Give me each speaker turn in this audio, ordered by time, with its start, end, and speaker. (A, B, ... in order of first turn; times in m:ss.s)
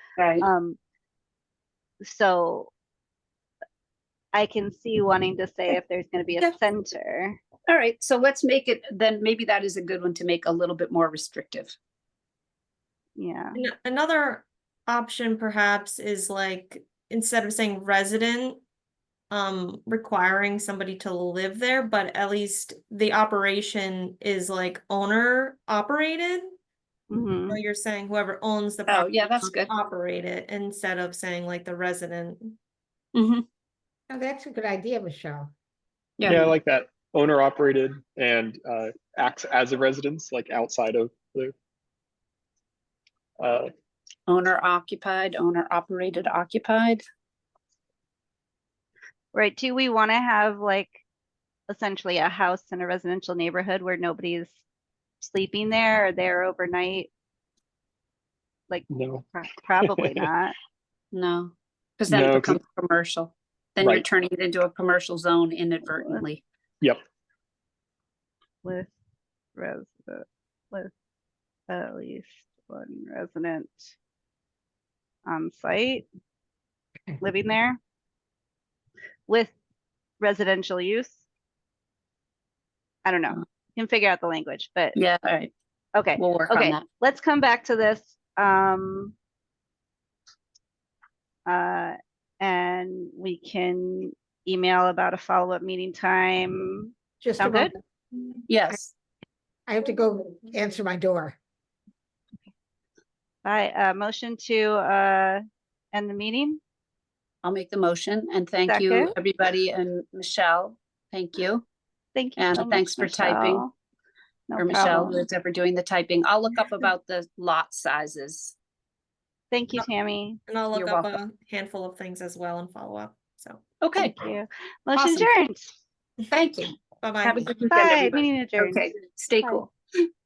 0:00.2-0:00.4 A
0:00.4-0:00.8 B
0:02.0-0:02.7 B
0:04.3-0:07.4 B
0:07.7-0:11.7 A
0:13.2-0:13.6 B
0:13.5-0:18.6 C
0:19.3-0:26.6 C
0:27.1-0:27.6 B
0:27.5-0:32.6 C
0:28.9-0:29.7 A
0:33.1-0:33.4 A
0:34.1-0:35.5 D
0:36.2-0:36.5 A
0:36.3-0:41.5 E
0:43.4-0:43.7 E
0:44.3-0:47.0 A
0:49.3-0:51.0 B
0:51.7-0:54.6 B
0:55.2-0:57.1 B
0:58.7-1:00.5 B
0:58.9-0:59.3 E
0:59.8-1:00.2 E
1:01.1-1:06.4 A
1:02.1-1:02.6 E
1:08.6-1:08.9 B
1:09.6-1:10.9 B
1:11.7-1:13.9 B
1:15.2-1:16.0 B
1:17.2-1:17.8 B
1:19.3-1:19.5 B
1:20.2-1:21.2 B
1:23.0-1:25.0 B
1:24.9-1:25.5 A
1:25.9-1:29.1 B
1:26.2-1:26.8 A
1:31.4-1:37.7 B
1:37.2-1:37.7 D
1:38.5-1:38.9 A
1:39.7-1:41.4 D
1:43.4-1:46.6 B
1:47.4-1:51.6 A
1:48.7-1:49.1 B
1:52.1-1:53.7 B
1:52.4-1:53.6 A
1:54.5-1:55.2 B
1:54.6-1:58.5 A
1:59.5-2:00.4 B
2:00.5-2:03.6 C
2:00.7-2:01.2 A
2:03.8-2:04.2 A
2:04.0-2:05.7 B
2:04.9-2:05.2 A
2:06.3-2:09.7 A
2:07.0-2:07.6 C
2:07.7-2:08.8 B
2:09.4-2:09.6 B